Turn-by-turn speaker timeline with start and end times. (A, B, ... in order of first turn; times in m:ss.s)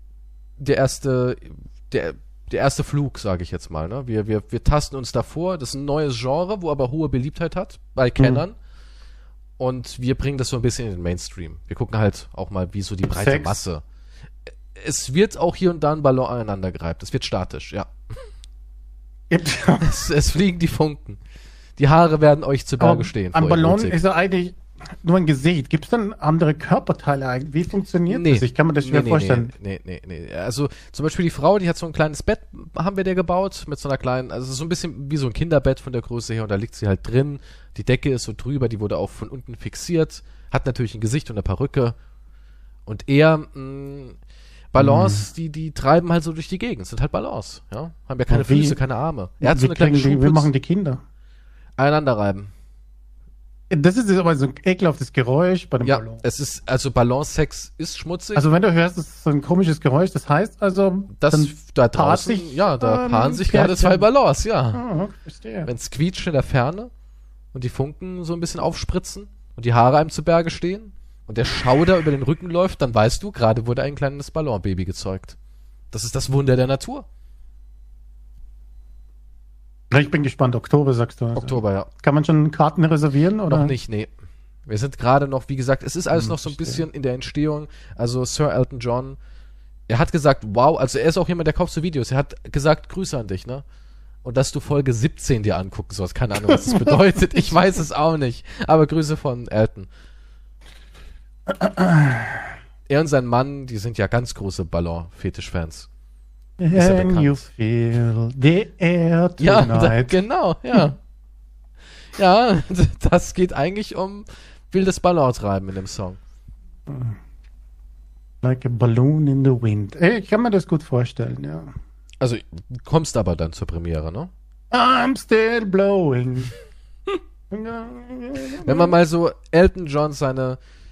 0:00.6-0:08.6 A
0:08.2-0:08.4 B
0:09.6-0:13.8 A
0:13.1-0:13.6 B
0:14.7-0:17.9 A
0:19.3-0:20.0 B
0:19.8-0:21.2 A
0:21.8-0:24.0 A
0:22.8-0:29.5 B
0:28.1-0:41.9 A
0:42.8-0:44.2 A
0:44.7-0:50.5 A
0:44.8-0:45.3 B
0:48.3-0:48.8 B
0:49.4-0:51.0 B
0:51.8-0:52.5 A
0:53.7-0:56.2 B
0:55.8-0:58.4 A
0:58.3-1:04.1 B
1:01.2-1:04.8 A
1:04.7-1:05.7 B
1:05.6-1:06.9 A
1:07.5-1:15.4 A
1:15.9-1:17.0 A
1:19.9-1:23.7 B
1:21.3-1:21.9 A
1:23.5-1:24.1 A
1:24.7-1:29.2 A
1:26.1-1:26.8 B
1:29.9-1:33.6 A
1:34.2-1:39.9 A
1:36.5-1:37.5 B
1:41.5-1:42.5 B
1:42.9-1:45.9 A
1:46.6-1:50.2 B
1:46.7-1:47.4 A
1:49.4-1:51.0 A
1:52.1-1:56.2 A
1:56.9-1:57.2 B
1:58.4-2:01.7 B
2:02.2-2:04.3 A
2:04.7-2:06.5 B
2:07.5-2:08.9 B
2:08.6-2:10.6 A